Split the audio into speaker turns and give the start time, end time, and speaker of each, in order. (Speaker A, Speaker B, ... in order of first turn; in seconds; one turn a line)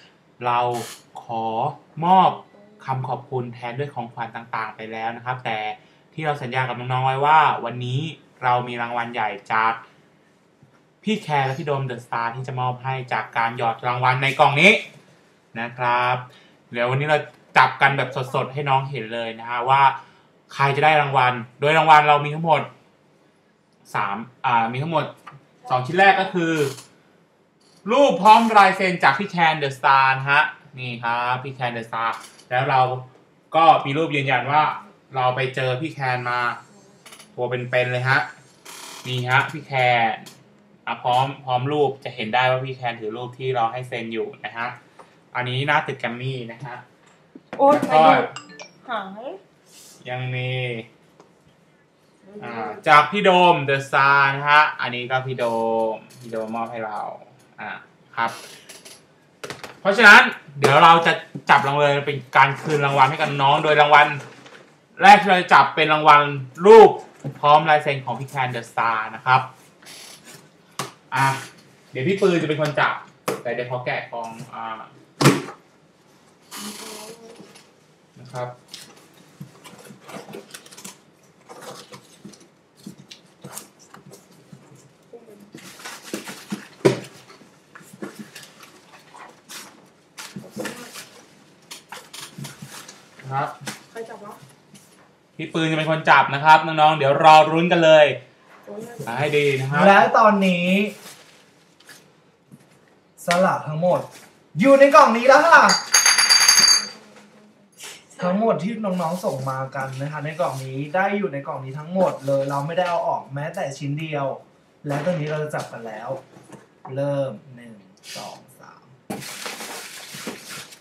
Speaker A: 0.4-9.8
Speaker A: 11.0-14.8
Speaker A: 15.5-19.9
Speaker A: 20.5-22.7
Speaker A: 23.9-25.1
Speaker A: 25.7-26.7
Speaker A: 27.8-36.6
Speaker A: 37.3-38.2
Speaker A: 39.0-40.3
Speaker A: 40.9-44.7
Speaker A: 45.3-46.8
Speaker B: 47.6-48.3
Speaker A: 47.7-48.3
Speaker B: 48.9-49.4
Speaker A: 50.0-50.9
Speaker A: 52.4-58.4
Speaker A: 59.8-64.2
Speaker A: 65.0-69.5
Speaker A: 71.1-71.4
Speaker A: 71.9-74.9
Speaker B: 76.7-77.2
Speaker A: 78.2-78.5
Speaker B: 85.1-85.4
Speaker A: 93.2-93.5
Speaker B: 93.9-94.4
Speaker A: 95.4-98.2
Speaker B: 98.7-99.1
Speaker A: 99.0-100.0
Speaker C: 99.7-100.9
Speaker C: 103.2-105.8
Speaker C: 108.2-116.2
Speaker C: 116.8-118.9